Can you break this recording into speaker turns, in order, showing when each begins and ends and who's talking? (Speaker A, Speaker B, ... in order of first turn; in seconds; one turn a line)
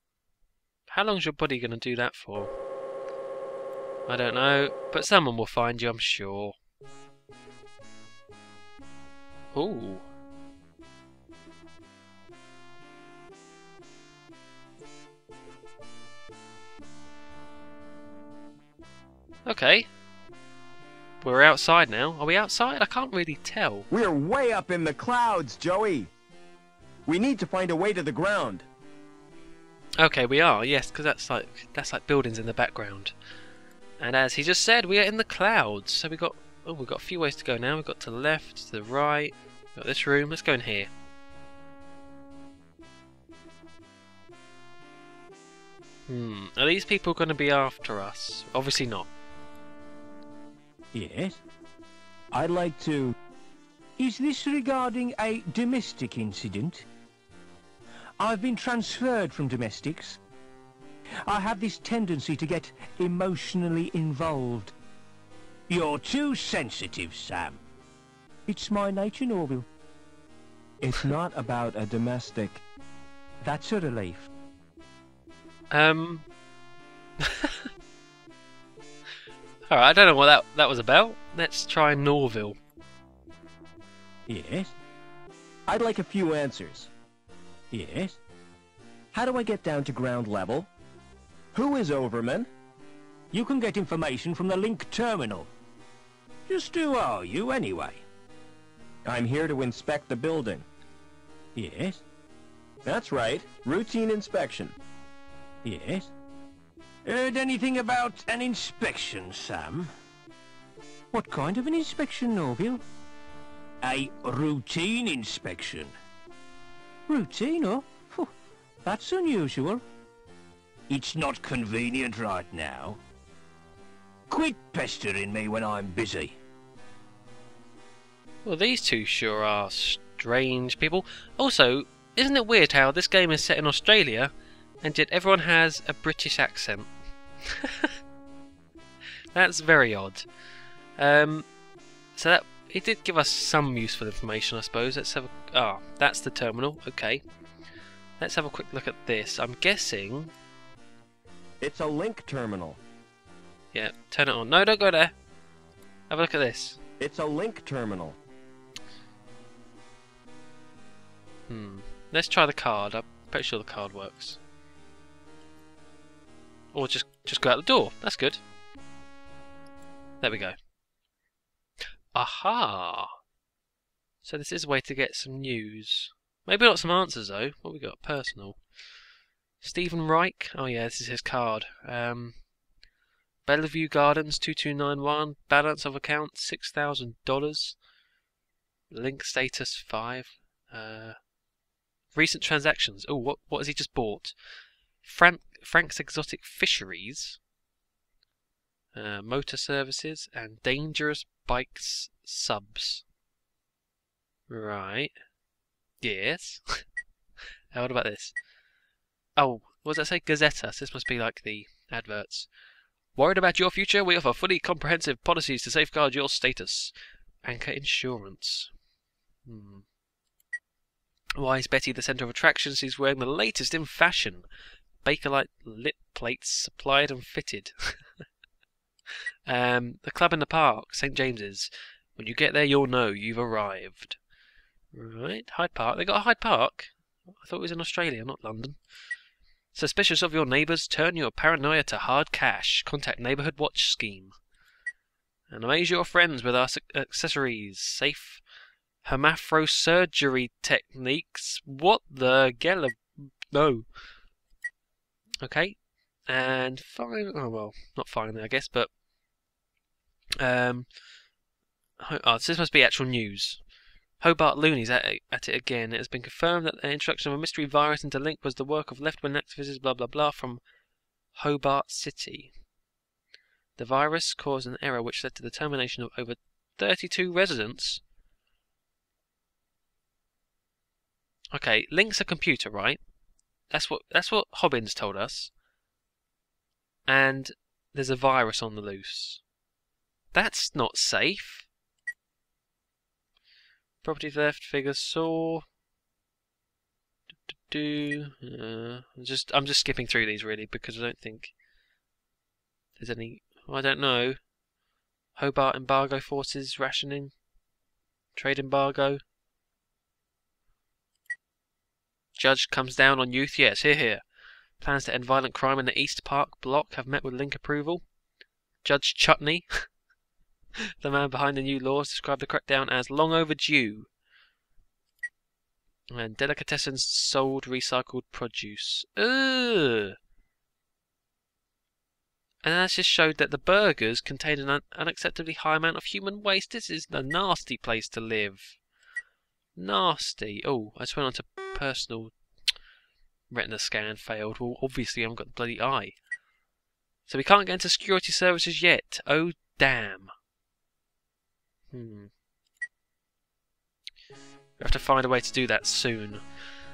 Speaker A: 0.9-2.5
Speaker A: 4.1-6.6
Speaker A: 9.5-10.1
Speaker A: 19.5-19.9
Speaker A: 21.2-23.9
Speaker B: 23.9-26.1
Speaker B: 27.1-28.7
Speaker A: 30.0-33.1
Speaker A: 34.0-40.9
Speaker A: 46.1-49.1
Speaker C: 50.9-51.4
Speaker B: 52.3-53.2
Speaker C: 54.0-56.9
Speaker C: 58.2-60.2
Speaker C: 61.3-64.7
Speaker C: 65.7-67.6
Speaker C: 68.5-69.7
Speaker B: 70.8-72.6
Speaker C: 73.4-74.3
Speaker A: 75.7-76.3
Speaker A: 77.2-77.7
Speaker A: 79.7-82.6
Speaker C: 84.3-84.7
Speaker B: 85.7-86.9
Speaker C: 87.7-88.2
Speaker B: 89.1-90.7
Speaker B: 91.5-92.5
Speaker C: 93.3-95.5
Speaker C: 96.5-98.0
Speaker B: 99.0-100.7
Speaker C: 101.6-102.0
Speaker B: 102.8-104.8
Speaker C: 105.6-106.1
Speaker C: 107.0-109.9
Speaker C: 111.1-112.8
Speaker C: 113.8-115.9
Speaker C: 117.1-118.3
Speaker C: 118.8-119.8
Speaker C: 120.9-123.0
Speaker C: 124.3-126.4
Speaker A: 128.4-136.9
Speaker A: 137.5-137.9
Speaker A: 139.3-140.3
Speaker A: 141.0-141.5
Speaker A: 142.2-147.2
Speaker A: 148.2-150.3
Speaker B: 151.6-152.8
Speaker A: 153.7-155.1
Speaker A: 156.1-156.8
Speaker B: 157.0-158.2
Speaker A: 161.5-164.4
Speaker A: 166.7-168.4
Speaker A: 170.2-170.6
Speaker A: 172.1-173.1
Speaker A: 174.2-178.6
Speaker A: 179.6-182.4
Speaker A: 183.5-187.8
Speaker A: 188.9-191.2
Speaker A: 192.1-194.3
Speaker A: 195.0-197.4
Speaker A: 198.9-203.0
Speaker A: 204.5-205.1
Speaker A: 206.0-206.8
Speaker A: 207.7-208.3
Speaker A: 209.4-212.5
Speaker A: 213.2-216.9
Speaker A: 217.4-218.7
Speaker A: 219.5-219.8
Speaker A: 221.4-224.5
Speaker A: 225.0-228.0
Speaker A: 229.5-234.2
Speaker A: 234.9-238.8
Speaker A: 239.7-244.3
Speaker A: 245.5-248.4
Speaker A: 249.0-253.9
Speaker A: 255.4-255.8
Speaker A: 256.3-258.9
Speaker A: 260.4-260.9
Speaker A: 262.0-263.6
Speaker A: 264.2-270.6
Speaker A: 271.3-272.5
Speaker A: 273.8-278.0
Speaker A: 281.5-283.0
Speaker A: 283.7-285.5
Speaker A: 287.1-289.4
Speaker A: 290.3-291.7
Speaker A: 294.0-295.6
Speaker A: 297.5-301.5
Speaker A: 303.0-304.4
Speaker A: 305.4-307.3
Speaker A: 308.4-309.2
Speaker A: 312.4-314.2
Speaker A: 314.8-318.0
Speaker A: 318.8-319.9
Speaker A: 321.0-324.1
Speaker A: 326.1-330.1
Speaker A: 332.6-338.8
Speaker A: 339.8-342.3
Speaker A: 343.5-346.2
Speaker A: 347.3-350.3
Speaker A: 351.9-352.3
Speaker A: 354.8-356.4